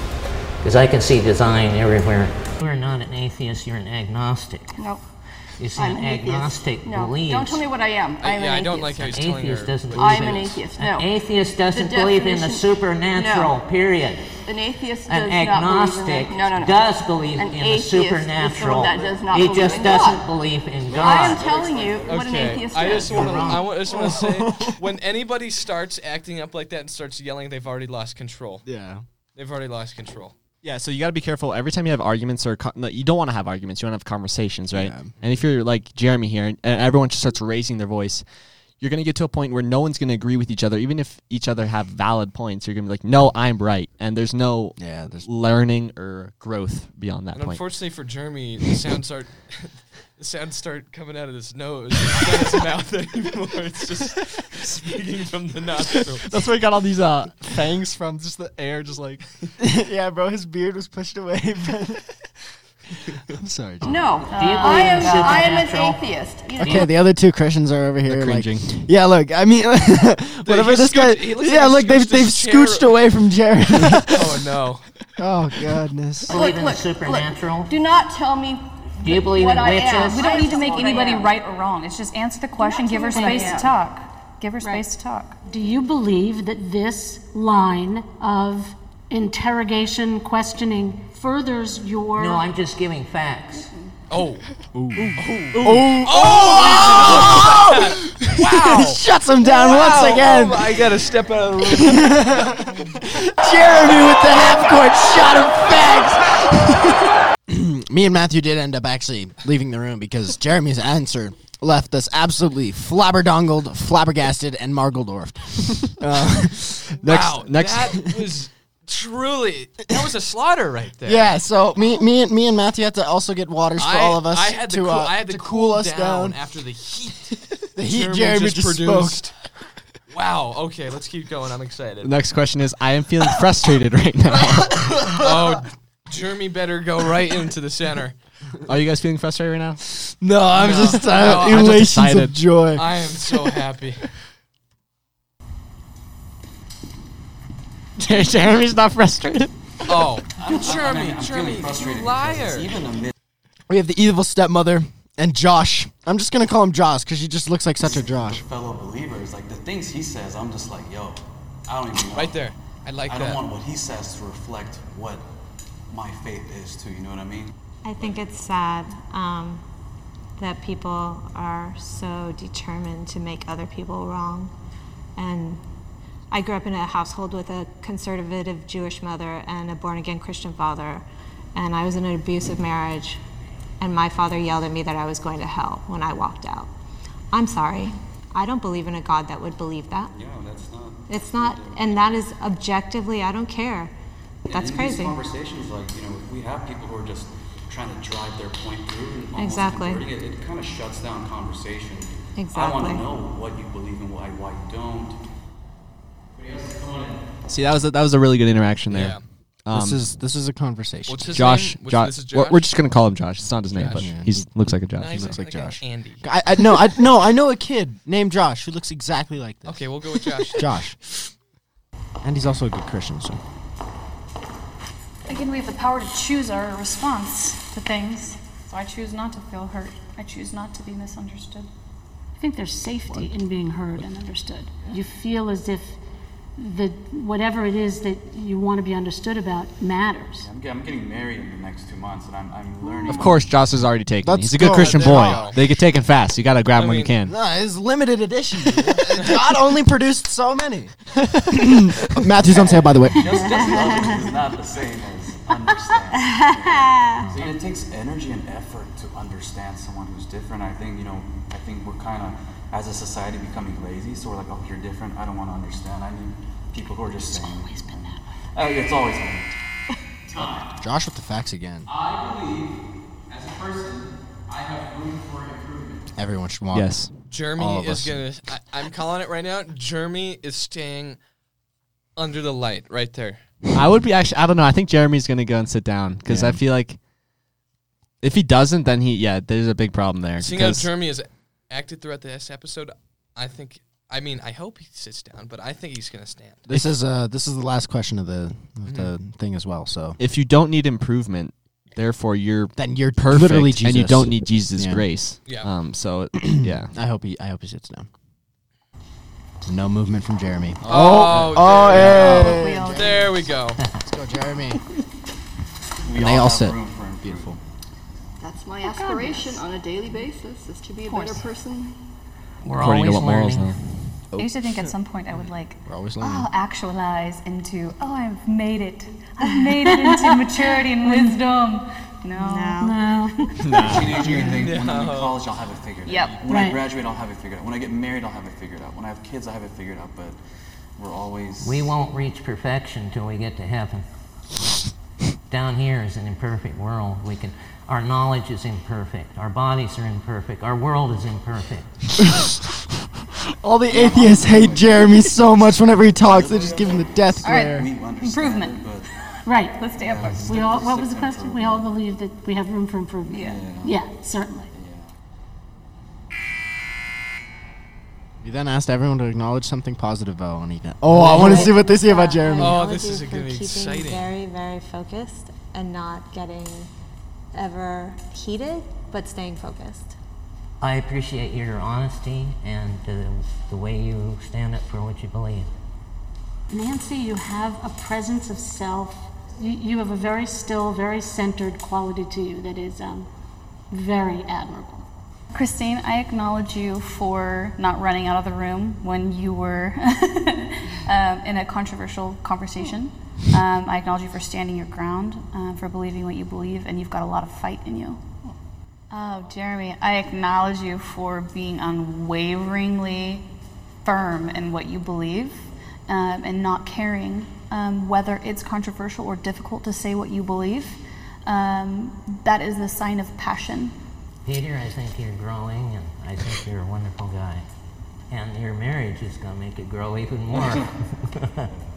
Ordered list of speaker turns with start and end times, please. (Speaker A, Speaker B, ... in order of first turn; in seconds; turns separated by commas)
Speaker A: 0.6-4.8, Speaker B: 4.8-5.0, Speaker A: 5.6-7.7, Speaker B: 5.7-9.1, Speaker C: 8.2-10.4, Speaker A: 9.1-14.3, Speaker B: 10.0-13.6, Speaker B: 14.3-20.3, Speaker A: 15.1-21.4, Speaker D: 18.8-20.1, Speaker D: 20.8-22.9, Speaker B: 20.9-23.6, Speaker C: 22.1-28.7, Speaker A: 22.9-23.7, Speaker E: 23.8-24.8, Speaker E: 28.6-29.0, Speaker C: 29.4-30.4, Speaker F: 30.6-38.3, Speaker E: 34.7-35.1, Speaker F: 38.8-47.6, Speaker E: 44.8-45.3, Speaker C: 47.3-56.3, Speaker F: 56.2-59.2, Speaker E: 59.6-62.1, Speaker E: 63.1-64.0, Speaker B: 63.9-66.9, Speaker A: 64.2-66.0, Speaker G: 64.3-65.5, Speaker A: 66.6-66.9, Speaker E: 66.6-74.4, Speaker F: 68.1-68.8, Speaker C: 70.4-73.0, Speaker C: 74.1-74.9, Speaker E: 75.2-76.4, Speaker B: 76.3-81.4, Speaker A: 76.3-77.7, Speaker A: 79.0-80.6, Speaker G: 80.0-85.4, Speaker B: 82.6-83.8, Speaker H: 83.1-83.6, Speaker H: 85.5-92.5, Speaker A: 92.2-93.7, Speaker C: 94.1-94.5, Speaker E: 94.8-100.9, Speaker C: 95.2-103.0, Speaker E: 101.6-116.9, Speaker F: 117.0-118.0, Speaker C: 117.0-121.3, Speaker E: 121.0-126.4, Speaker C: 123.8-129.4, Speaker E: 127.8-129.3, Speaker C: 130.1-132.2, Speaker F: 132.0-135.1, Speaker C: 135.0-138.2, Speaker F: 138.7-139.8, Speaker E: 140.1-142.8, Speaker C: 140.5-141.8, Speaker F: 140.6-142.4, Speaker C: 142.8-144.0, Speaker F: 148.0-149.9, Speaker C: 149.8-152.7, Speaker D: 150.3-153.1, Speaker E: 153.7-158.4, Speaker D: 157.8-162.4, Speaker C: 162.1-163.4, Speaker D: 163.1-165.3, Speaker D: 165.9-168.3, Speaker I: 167.8-169.6, Speaker I: 170.4-174.5, Speaker I: 175.2-175.6, Speaker I: 176.3-183.2, Speaker I: 183.8-186.7, Speaker I: 187.3-190.2, Speaker D: 190.1-192.1, Speaker I: 191.1-193.9, Speaker D: 194.5-205.2, Speaker I: 194.5-195.2, Speaker I: 199.4-200.1, Speaker I: 202.3-203.1, Speaker J: 206.3-207.2, Speaker F: 207.5-210.0, Speaker C: 208.9-209.2, Speaker E: 209.7-211.6, Speaker C: 211.1-212.7, Speaker F: 211.3-215.4, Speaker C: 213.7-214.1, Speaker E: 213.8-221.1, Speaker C: 215.0-216.2, Speaker C: 219.7-220.8, Speaker E: 222.2-223.4, Speaker G: 225.3-231.7, Speaker H: 232.4-236.0, Speaker H: 236.6-240.5, Speaker D: 240.4-243.5, Speaker F: 243.1-247.3, Speaker E: 244.2-245.6, Speaker C: 244.7-245.6, Speaker C: 246.8-247.1, Speaker E: 247.3-254.1, Speaker C: 248.7-249.5, Speaker D: 252.4-269.5, Speaker I: 253.7-254.0, Speaker I: 256.1-257.4, Speaker A: 257.2-257.5, Speaker G: 267.3-268.2, Speaker J: 270.3-270.7, Speaker E: 270.4-271.9, Speaker J: 271.9-272.8, Speaker J: 273.3-276.1, Speaker E: 276.1-278.2, Speaker F: 276.7-277.1, Speaker C: 277.3-281.2, Speaker C: 282.2-283.4, Speaker F: 283.7-287.0, Speaker E: 286.3-286.6, Speaker F: 288.2-290.9, Speaker C: 290.4-296.7, Speaker E: 296.7-300.2, Speaker C: 298.9-299.1, Speaker F: 300.2-306.9, Speaker E: 302.8-305.1, Speaker C: 305.5-305.7, Speaker E: 306.4-308.1, Speaker E: 309.6-313.4, Speaker C: 310.9-313.8, Speaker G: 311.6-313.4, Speaker E: 314.0-314.8, Speaker D: 316.0-317.6, Speaker E: 316.1-317.6, Speaker B: 318.4-322.0, Speaker G: 318.8-319.6, Speaker G: 321.1-321.5, Speaker A: 322.6-323.7, Speaker F: 322.7-324.0, Speaker E: 324.3-324.7, Speaker G: 324.4-332.9, Speaker E: 325.9-326.5, Speaker H: 329.9-330.5, Speaker H: 331.0-331.4, Speaker I: 332.3-333.0, Speaker H: 332.8-334.4, Speaker F: 333.6-334.1, Speaker D: 333.8-340.4, Speaker G: 334.2-334.5, Speaker C: 334.5-335.4, Speaker H: 336.4-336.9, Speaker D: 341.0-341.9, Speaker A: 341.6-344.1, Speaker A: 345.5-351.9, Speaker E: 353.6-357.9, Speaker D: 353.9-359.1, Speaker G: 357.4-358.9, Speaker H: 359.4-364.7, Speaker G: 359.8-360.5, Speaker D: 359.9-361.9, Speaker A: 360.2-360.5, Speaker G: 363.3-363.6, Speaker D: 363.4-364.0, Speaker D: 364.7-365.1, Speaker E: 368.4-372.8, Speaker A: 371.2-371.5, Speaker I: 371.2-376.9, Speaker C: 371.2-371.6, Speaker C: 372.6-374.3, Speaker I: 377.5-380.2, Speaker A: 380.8-385.7, Speaker H: 386.7-393.3, Speaker H: 393.9-395.1, Speaker G: 395.5-408.2, Speaker G: 409.1-413.5, Speaker G: 414.0-423.9, Speaker A: 424.4-427.6, Speaker A: 428.3-431.7, Speaker D: 430.5-430.9